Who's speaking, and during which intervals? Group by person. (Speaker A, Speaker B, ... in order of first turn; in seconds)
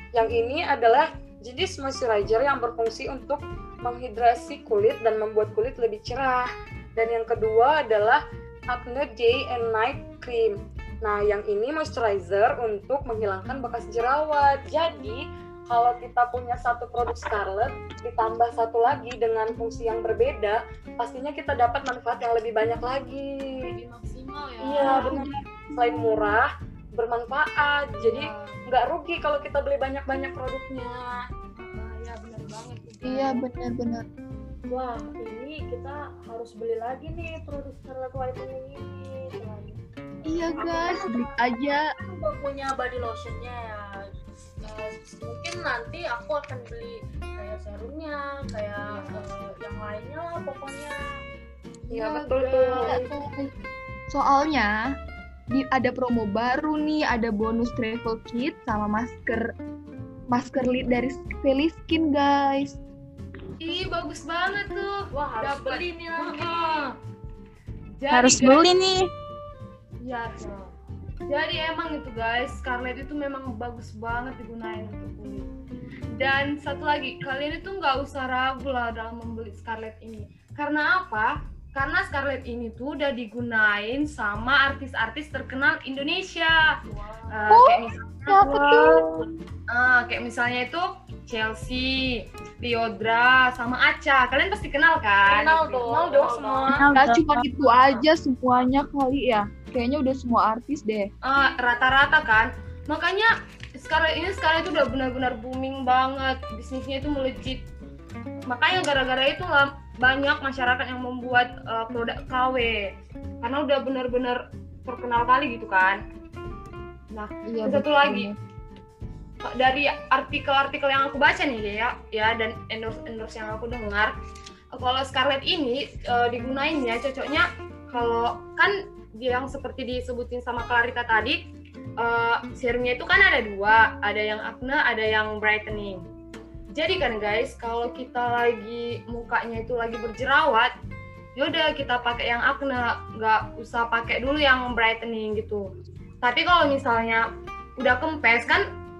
Speaker A: 0.1-23.7, 24.6-31.1, 51.9-52.9, 95.8-96.9
Speaker B: 23.7-25.2, 28.0-28.6, 31.6-33.4, 48.9-49.2, 51.9-53.1, 63.6-66.9, 68.0-68.7, 70.0-70.6, 71.3-75.5, 76.2-86.5, 87.3-88.7, 89.7-92.0, 92.6-95.8, 101.2-107.6, 108.5-112.8, 113.4-116.0, 117.1-118.3, 119.4-124.2, 124.7-131.4, 132.0-136.0, 136.7-140.7, 141.4-145.7, 146.2-147.2, 147.8-148.6
Speaker C: 24.9-25.2, 33.0-34.1, 40.2-41.8, 52.7-53.5, 54.1-54.7, 55.5-59.5, 60.3-62.8, 87.5-89.2, 96.9-101.1, 117.5-118.4
Speaker D: 34.7-44.0, 44.6-50.9, 65.1-66.8, 86.9-87.6, 95.3-96.8
Speaker E: 68.1-69.1, 88.8-89.0, 96.7-97.4